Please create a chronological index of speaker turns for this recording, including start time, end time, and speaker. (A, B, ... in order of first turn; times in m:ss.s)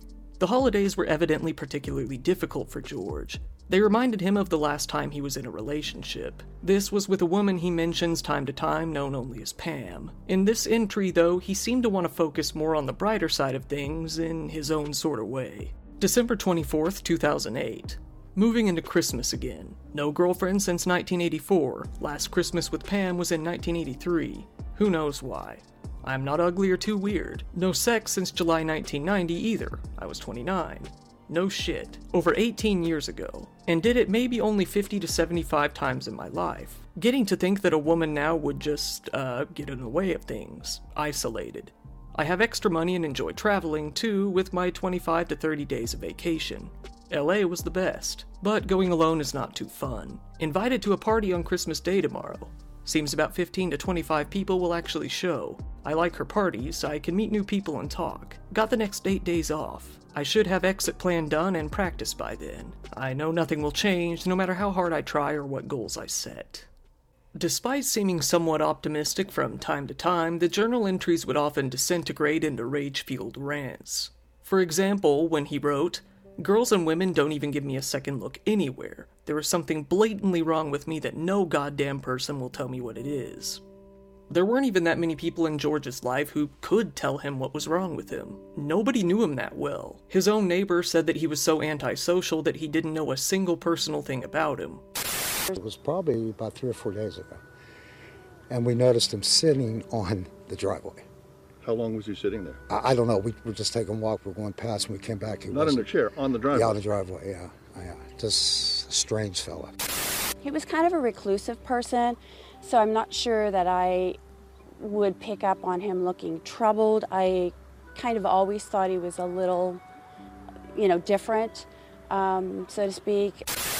0:00.4-1:06.7 A
1:07.3-1:23.6 A
1:24.3-1:34.8 A
1:35.5-1:37.4 B
1:38.5-1:41.0 B
1:41.6-1:42.6 C
1:42.7-1:45.8 B
1:45.5-1:46.8 C
1:46.5-1:49.8 B
1:50.4-1:54.2 D
1:54.8-1:59.8 D
2:00.7-2:03.5 D